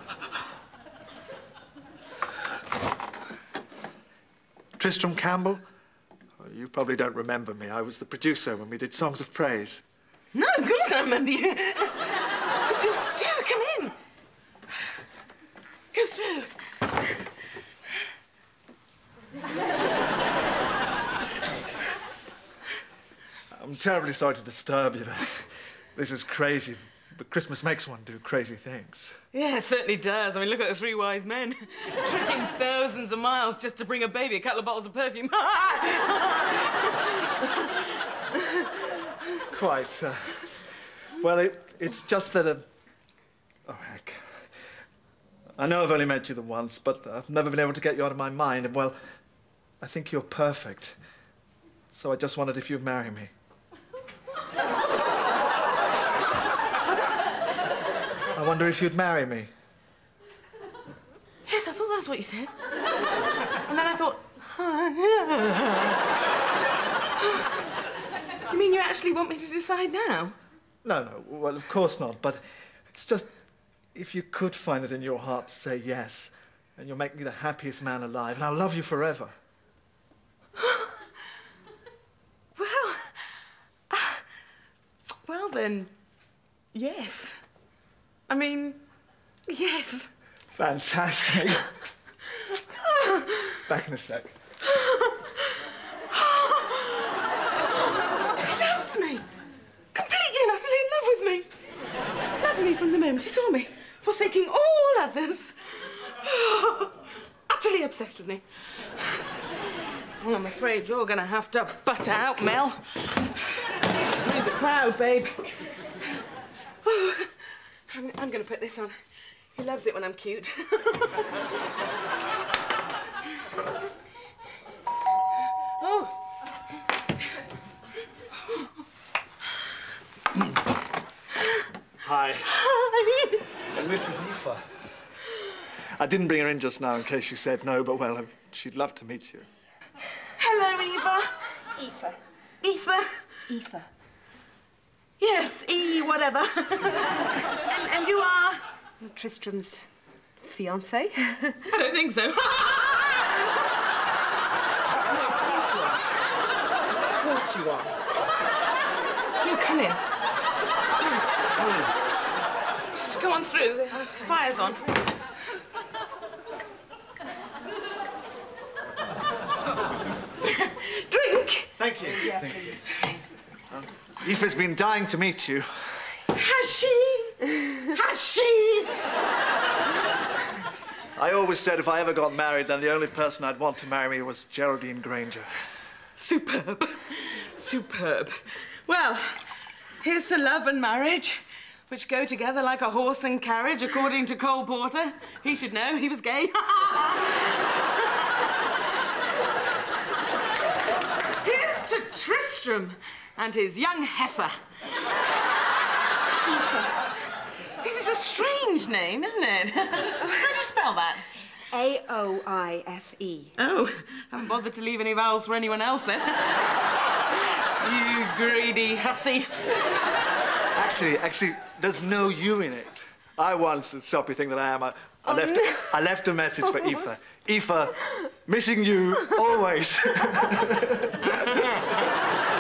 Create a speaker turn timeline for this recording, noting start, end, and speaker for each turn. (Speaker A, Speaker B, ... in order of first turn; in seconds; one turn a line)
Speaker A: 4.8-5.6
Speaker A: 6.4-9.8
Speaker B: 10.3-13.9
Speaker B: 15.9-16.5
Speaker A: 23.5-29.2
Speaker B: 29.3-39.1
Speaker A: 39.5-42.7
Speaker A: 43.7-44.5
Speaker A: 45.6-49.0
Speaker A: 49.8-51.0
Speaker A: 51.9-53.3
Speaker A: 58.3-59.5
Speaker B: 61.5-62.5
Speaker B: 63.7-66.0
Speaker B: 67.2-67.5
Speaker B: 68.5-70.4
Speaker A: 70.8-73.3
Speaker A: 73.9-79.3
Speaker B: 82.6-83.2
Speaker B: 83.9-84.2
Speaker B: 85.2-85.9
Speaker B: 86.7-87.4
Speaker B: 88.3-88.8
Speaker B: 89.5-90.1
Speaker A: 90.5-91.7
Speaker B: 93.0-93.5
Speaker A: 93.5-94.3
Speaker B: 94.7-95.6
Speaker B: 96.1-97.1
Speaker B: 98.3-99.3
Speaker B: 99.9-101.5
Speaker B: 102.4-108.5
Speaker B: 109.0-109.3
Speaker B: 110.2-115.8
Speaker B: 116.8-119.0
Speaker B: 119.5-121.4
Speaker B: 125.8-126.1
Speaker A: 132.0-132.6
Speaker B: 132.6-133.5
Speaker A: 133.7-134.6
Speaker A: 136.0-139.5
Speaker B: 140.4-143.5
Speaker C: 143.5-143.9
Speaker B: 145.2-148.6
Speaker C: 149.0-149.9
Speaker C: 150.4-151.7
Speaker B: 151.7-153.4
Speaker B: 155.0-156.1
Speaker B: 157.1-157.9
Speaker B: 159.4-160.0
Speaker B: 161.0-161.9
Speaker B: 162.9-164.9
Speaker B: 170.4-171.7
Speaker A: 171.8-173.1
Speaker C: 172.4-173.3
Speaker B: 172.9-173.2
Speaker A: 173.7-176.1
Speaker B: 176.2-179.0
Speaker A: 181.2-185.5
Speaker B: 186.2-189.4
Speaker B: 190.0-198.5
Speaker B: 201.4-204.5
Speaker C: 206.4-206.9
Speaker B: 207.8-211.3
Speaker C: 211.7-213.6
Speaker B: 213.6-216.8
Speaker B: 217.3-219.7
Speaker A: 220.7-231.7
Speaker B: 231.4-231.6